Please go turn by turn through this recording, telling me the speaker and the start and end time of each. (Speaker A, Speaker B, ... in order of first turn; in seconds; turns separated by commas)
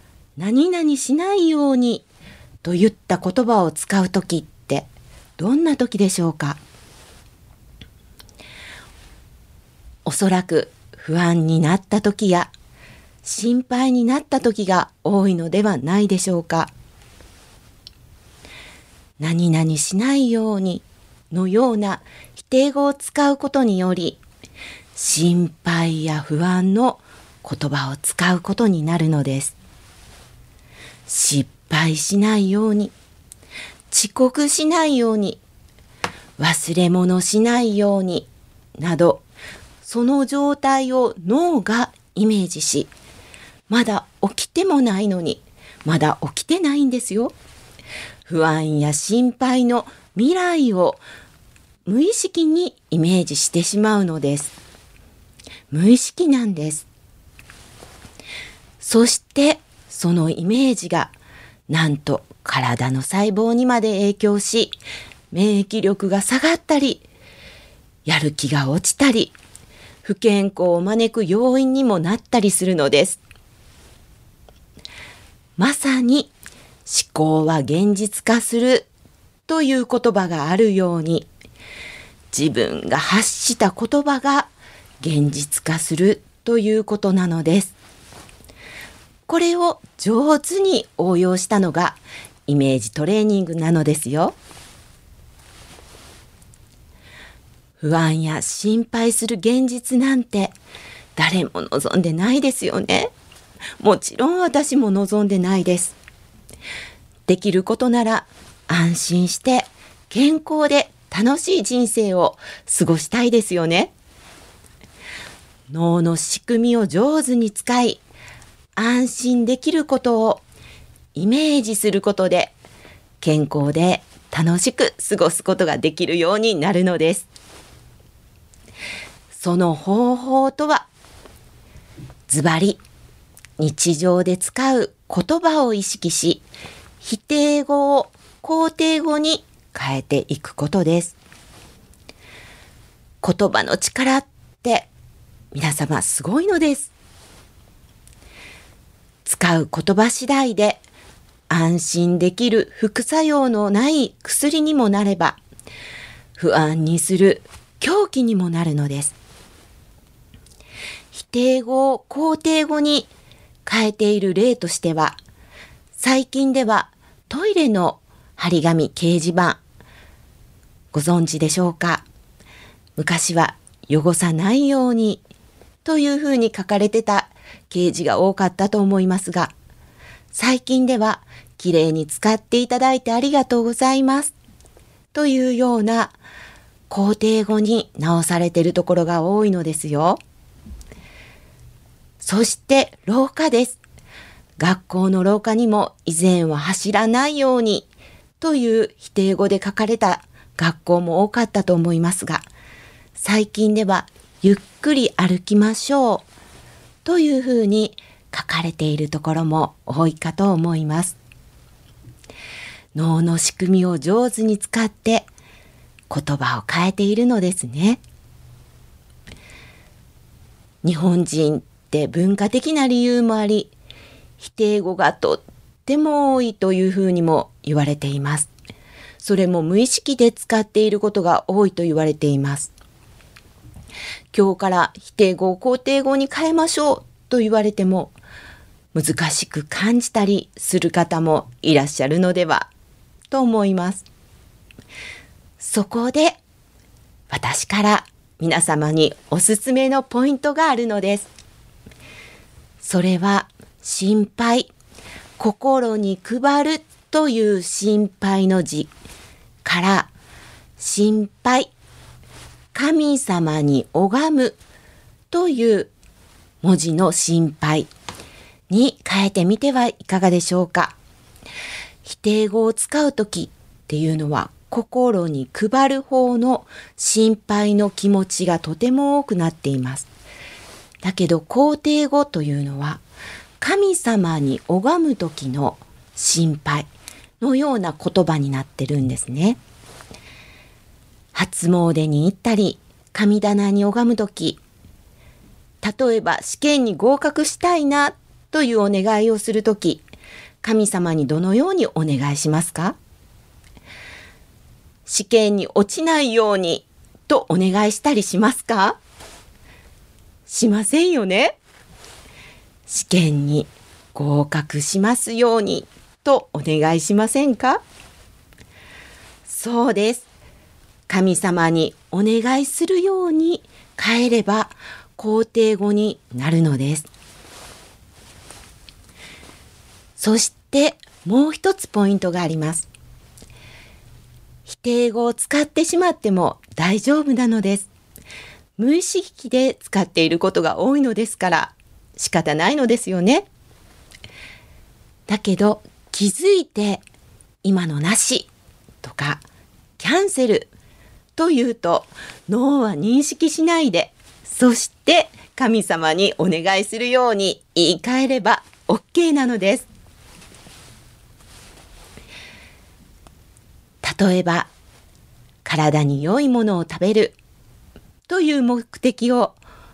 Speaker A: 0.4-2.1, Speaker A: 2.6-4.9, Speaker A: 5.4-6.6, Speaker A: 10.1-12.5, Speaker A: 13.2-16.7, Speaker A: 19.2-24.2, Speaker A: 25.0-29.6, Speaker A: 31.1-32.9, Speaker A: 33.9-35.4, Speaker A: 36.4-39.2, Speaker A: 39.8-42.9, Speaker A: 43.7-47.3, Speaker A: 48.3-51.0, Speaker A: 51.9-54.5, Speaker A: 55.7-56.9, Speaker A: 58.8-61.1, Speaker A: 61.7-64.8, Speaker A: 65.3-67.0, Speaker A: 68.1-69.3, Speaker A: 70.0-73.2, Speaker A: 75.6-76.3, Speaker A: 76.9-78.9, Speaker A: 79.5-81.3, Speaker A: 82.3-84.5, Speaker A: 85.0-87.7, Speaker A: 89.3-94.4, Speaker A: 97.8-100.5, Speaker A: 101.2-103.1, Speaker A: 103.8-106.0, Speaker A: 107.3-113.9, Speaker A: 115.7-118.0, Speaker A: 118.8-120.4, Speaker A: 121.2-122.5, Speaker A: 123.2-127.3, Speaker A: 129.3-130.9, Speaker A: 132.3-132.8, Speaker A: 133.6-136.4, Speaker A: 137.0-141.2, Speaker A: 143.2-144.9, Speaker A: 145.5-146.9, Speaker A: 149.2-150.8, Speaker A: 151.5-155.4, Speaker A: 156.4-159.2, Speaker A: 161.1-163.1, Speaker A: 163.7-165.2, Speaker A: 166.0-169.6, Speaker A: 170.9-172.0, Speaker A: 173.0-175.2, Speaker A: 175.8-179.5, Speaker A: 180.3-184.3, Speaker A: 185.1-186.1, Speaker A: 186.9-190.2, Speaker A: 192.2-193.8, Speaker A: 194.6-197.9, Speaker A: 198.4-202.5, Speaker A: 203.2-206.2, Speaker A: 207.1-211.2, Speaker A: 212.9-215.3, Speaker A: 216.1-218.0, Speaker A: 220.8-223.7, Speaker A: 224.4-228.5, Speaker A: 229.2-232.7, Speaker A: 234.3-238.1, Speaker A: 238.9-242.7, Speaker A: 243.3-244.1, Speaker A: 245.6-246.4, Speaker A: 247.3-251.3, Speaker A: 252.8-254.7, Speaker A: 255.4-258.9, Speaker A: 259.6-260.1, Speaker A: 260.8-261.7, Speaker A: 262.7-264.6, Speaker A: 265.3-265.9, Speaker A: 266.6-267.9, Speaker A: 268.7-270.9, Speaker A: 272.1-280.1, Speaker A: 281.0-283.0, Speaker A: 283.6-286.9, Speaker A: 287.4-289.6, Speaker A: 291.3-294.6, Speaker A: 295.8-300.0, Speaker A: 300.6-303.0, Speaker A: 305.1-309.0, Speaker A: 310.5-311.6, Speaker A: 312.9-317.8, Speaker A: 319.5-320.3, Speaker A: 321.1-327.1, Speaker A: 330.2-332.9, Speaker A: 334.7-337.9, Speaker A: 338.8-343.5, Speaker A: 345.3-347.0, Speaker A: 347.6-348.5, Speaker A: 349.0-349.4, Speaker A: 350.0-350.7, Speaker A: 351.4-359.9, Speaker A: 364.0-364.7, Speaker A: 365.6-367.4, Speaker A: 368.3-369.6